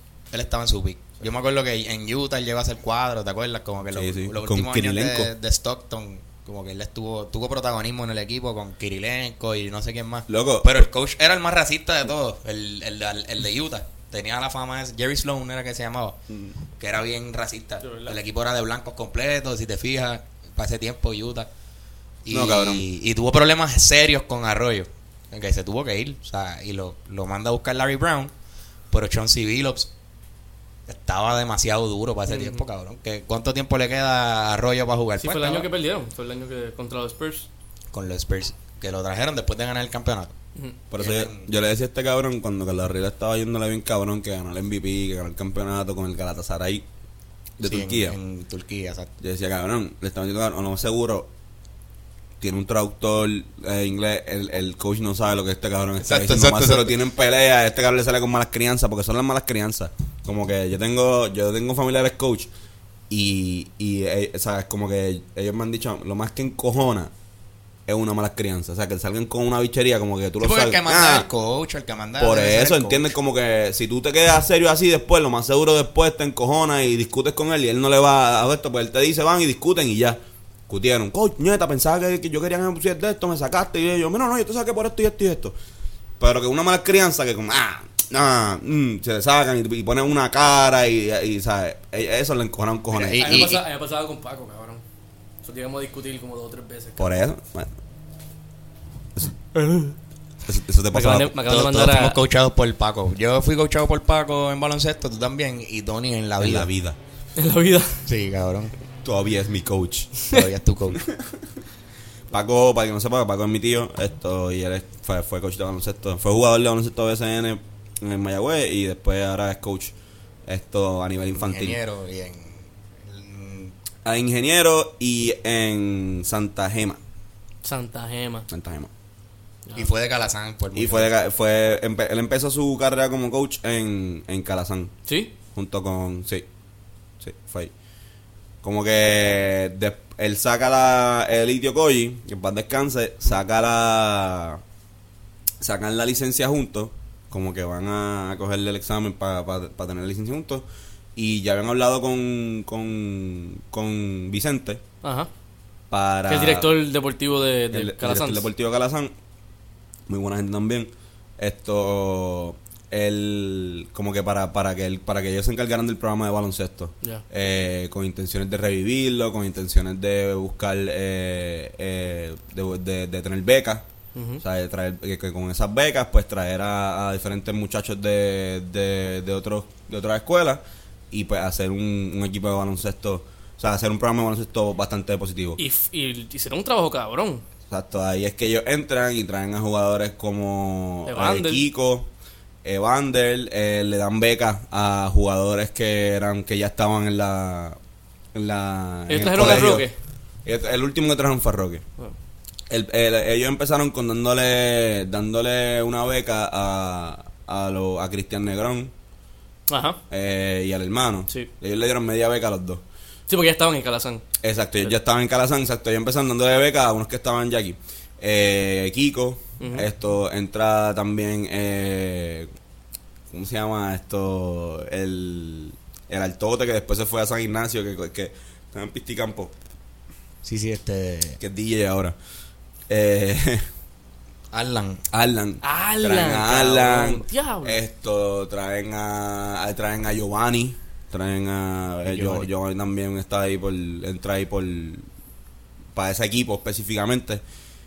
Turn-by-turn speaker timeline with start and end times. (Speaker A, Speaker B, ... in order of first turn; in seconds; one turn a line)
Speaker A: 0.3-16.2
Speaker B: 3.9-5.3
Speaker B: 10.3-10.9
Speaker A: 16.8-21.5
Speaker C: 17.8-18.2
Speaker A: 22.2-28.3
Speaker B: 22.3-22.9
Speaker A: 28.9-29.9
Speaker A: 30.9-35.7
Speaker C: 32.3-32.6
Speaker C: 35.2-37.5
Speaker A: 37.9-40.4
Speaker B: 40.9-46.8
Speaker A: 41.0-41.5
Speaker B: 47.6-48.2
Speaker A: 47.6-49.1
Speaker B: 49.2-51.3
Speaker B: 52.4-62.5
Speaker A: 56.0-57.0
Speaker B: 63.1-67.1
Speaker B: 67.9-71.3
Speaker A: 70.4-73.1
Speaker B: 72.2-85.5
Speaker B: 86.2-93.4
Speaker A: 92.9-93.6
Speaker C: 93.2-94.8
Speaker C: 95.4-97.1
Speaker B: 97.0-97.7
Speaker C: 99.5-100.0
Speaker B: 100.5-101.4
Speaker C: 100.9-102.2
Speaker A: 101.5-106.7
Speaker B: 106.4-107.0
Speaker C: 107.4-108.0
Speaker A: 108.1-108.7
Speaker B: 109.0-110.3
Speaker A: 110.3-111.0
Speaker B: 111.0-111.4
Speaker B: 112.3-119.9
Speaker B: 120.5-121.8
Speaker A: 121.3-123.8
Speaker B: 124.0-127.0
Speaker C: 127.6-128.5
Speaker B: 128.5-128.9
Speaker A: 129.8-131.1
Speaker B: 130.8-134.9
Speaker C: 135.1-135.3
Speaker B: 135.6-136.5
Speaker B: 137.2-137.7
Speaker B: 138.6-144.6
Speaker B: 145.6-150.7
Speaker B: 151.2-154.8
Speaker C: 155.0-155.3
Speaker B: 155.9-156.7
Speaker C: 156.3-158.5
Speaker B: 157.7-159.1
Speaker B: 160.1-173.8
Speaker C: 174.2-174.4
Speaker B: 174.4-185.6
Speaker C: 185.6-187.4
Speaker B: 187.7-192.1
Speaker C: 191.1-191.7
Speaker B: 192.6-197.8
Speaker B: 198.3-199.9
Speaker C: 199.1-199.9
Speaker B: 200.4-201.8
Speaker B: 202.7-208.9
Speaker C: 209.7-210.0
Speaker B: 210.1-212.8
Speaker C: 213.3-214.2
Speaker B: 214.4-222.5
Speaker C: 219.6-219.9
Speaker B: 223.3-229.5
Speaker A: 230.4-231.4
Speaker B: 231.4-232.2
Speaker B: 232.9-233.7
Speaker A: 234.5-235.1
Speaker B: 235.1-245.1
Speaker C: 235.6-237.8
Speaker A: 242.1-242.5
Speaker B: 245.9-247.4